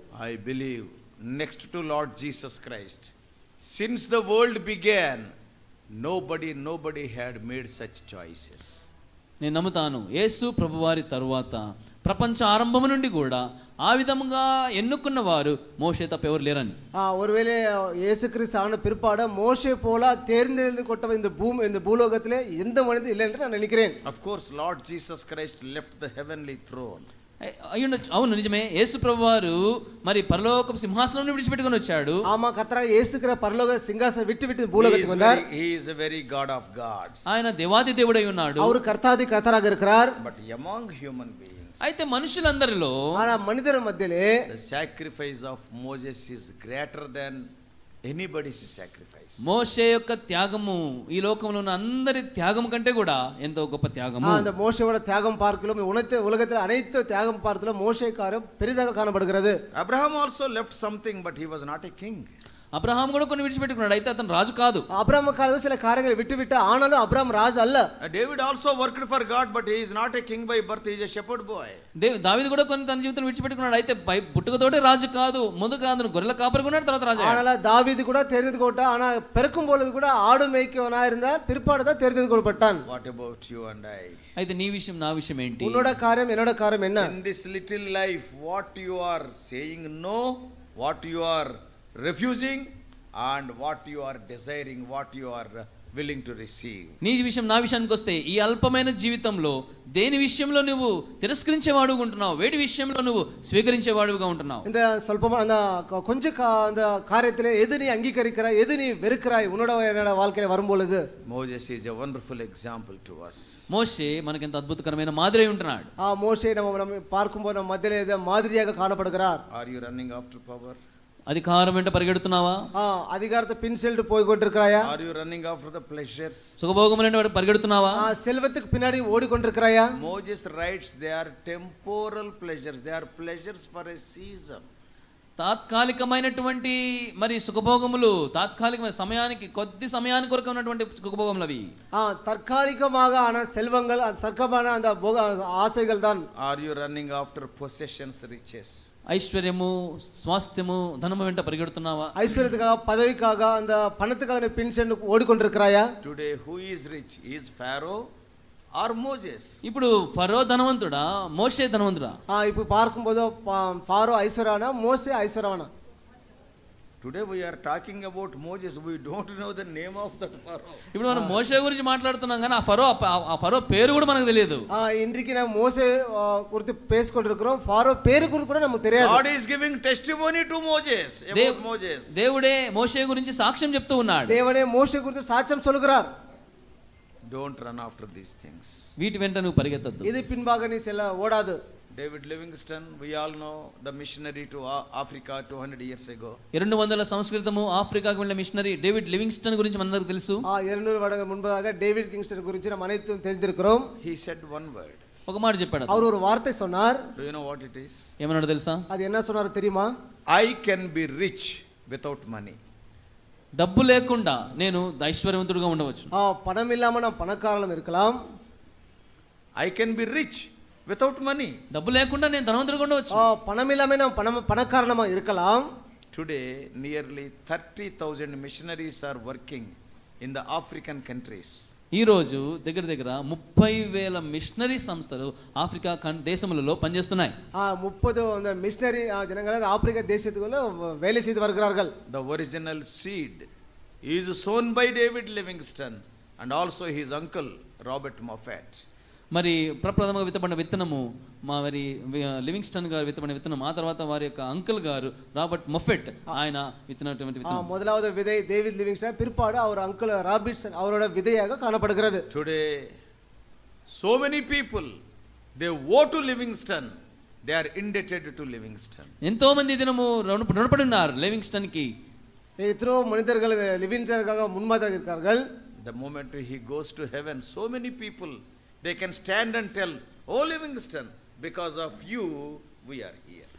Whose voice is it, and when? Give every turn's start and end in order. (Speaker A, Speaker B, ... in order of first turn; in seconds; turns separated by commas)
Speaker A: 0.2-3.1, Speaker A: 3.6-5.3, Speaker A: 6.0-8.8, Speaker B: 9.4-16.8, Speaker C: 17.0-24.0, Speaker A: 24.1-27.1, Speaker B: 27.4-32.2, Speaker C: 32.3-35.4, Speaker A: 34.8-37.2, Speaker B: 37.3-38.8, Speaker C: 38.6-40.2, Speaker A: 40.2-41.8, Speaker B: 41.8-43.0, Speaker C: 43.2-44.3, Speaker A: 44.5-47.5, Speaker A: 48.0-49.4, Speaker B: 49.4-54.5, Speaker C: 54.2-59.6, Speaker A: 59.7-62.3, Speaker B: 62.7-64.8, Speaker C: 64.9-67.8, Speaker A: 68.0-71.8, Speaker B: 72.0-77.4, Speaker C: 77.2-82.8, Speaker A: 82.8-84.2, Speaker B: 84.4-85.9, Speaker C: 85.6-87.1, Speaker A: 87.0-97.0, Speaker B: 97.0-104.7, Speaker C: 104.7-111.0, Speaker A: 111.2-113.6, Speaker B: 113.7-115.9, Speaker C: 116.0-119.4, Speaker A: 119.5-120.8, Speaker B: 121.3-122.7, Speaker C: 122.8-124.9, Speaker A: 124.8-126.5, Speaker B: 126.6-128.1, Speaker C: 128.0-129.9, Speaker A: 130.0-134.7, Speaker B: 135.4-141.7, Speaker C: 142.0-146.3, Speaker A: 146.4-148.9, Speaker B: 149.1-152.2, Speaker C: 152.2-155.9, Speaker A: 156.0-158.0, Speaker A: 158.8-159.6, Speaker B: 159.6-162.2, Speaker C: 162.3-165.7, Speaker A: 167.0-170.9, Speaker B: 170.9-174.7, Speaker C: 171.1-171.4, Speaker C: 174.7-179.2, Speaker A: 179.0-182.1, Speaker B: 181.3-181.6, Speaker B: 182.1-184.4, Speaker C: 184.3-186.1, Speaker A: 187.3-188.7, Speaker B: 189.0-190.1, Speaker C: 190.0-191.6, Speaker A: 191.9-196.4, Speaker B: 196.5-200.4, Speaker C: 200.5-203.9, Speaker A: 204.0-205.0, Speaker B: 205.3-206.1, Speaker C: 205.9-207.0, Speaker A: 207.2-208.0, Speaker B: 208.2-208.8, Speaker C: 208.9-209.9, Speaker A: 210.3-212.6, Speaker B: 213.6-216.1, Speaker C: 216.1-218.2, Speaker A: 219.6-221.6, Speaker B: 221.7-223.3, Speaker C: 223.1-225.7, Speaker A: 226.1-231.6, Speaker B: 231.9-237.3, Speaker C: 237.6-241.9, Speaker A: 242.1-243.5, Speaker A: 244.0-248.8, Speaker B: 249.3-257.7, Speaker C: 257.5-262.3, Speaker A: 262.3-262.9, Speaker A: 264.0-264.9, Speaker A: 265.6-266.9, Speaker A: 267.5-269.1, Speaker B: 269.2-271.9, Speaker C: 272.6-275.4, Speaker A: 275.8-283.5